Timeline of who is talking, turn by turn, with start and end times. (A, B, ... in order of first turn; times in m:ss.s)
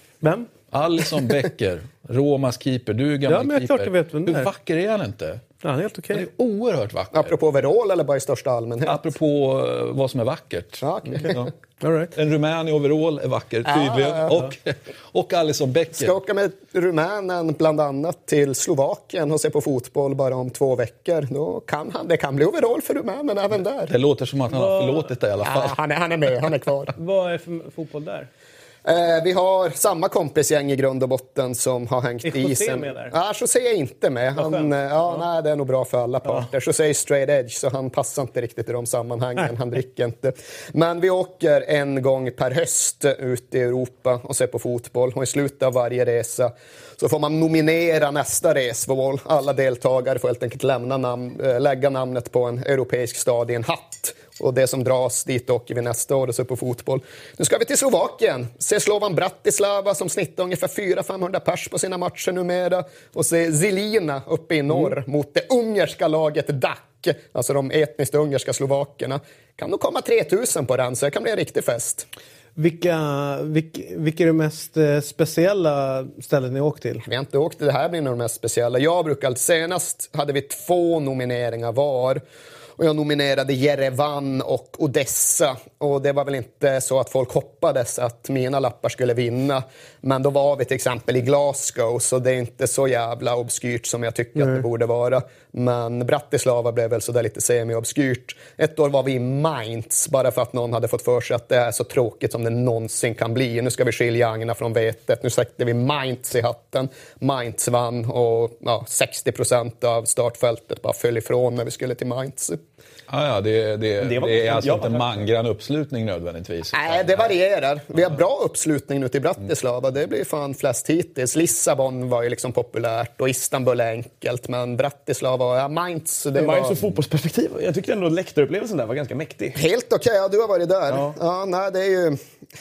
0:00.2-0:00.5 A
0:00.7-0:05.4 B
0:03.3-0:04.5 A
0:05.6-0:06.2 A
0:06.1-0:07.3 B
0:07.1-0:09.1 C
0:08.8-0:11.5 B
0:10.8-0:11.5 C
0:11.8-0:12.1 A
0:12.1-0:16.1 B
0:13.6-0:14.4 C
0:15.9-0:23.9 C
0:23.9-0:25.7 B
0:24.5-0:25.1 A
0:25.4-0:26.9 C
0:27.0-0:28.3 A
0:28.8-1:12.0 C
0:32.2-0:33.1 A
0:34.4-0:35.2 A
0:36.2-0:36.5 A
1:12.6-1:17.0 A
1:17.0-1:22.2 C
1:22.8-1:52.6 C
1:53.1-1:57.3 B
1:54.0-1:55.3 D
1:56.7-2:06.8 C
2:06.3-2:09.6 D
2:09.5-2:12.2 C
2:10.9-2:11.1 D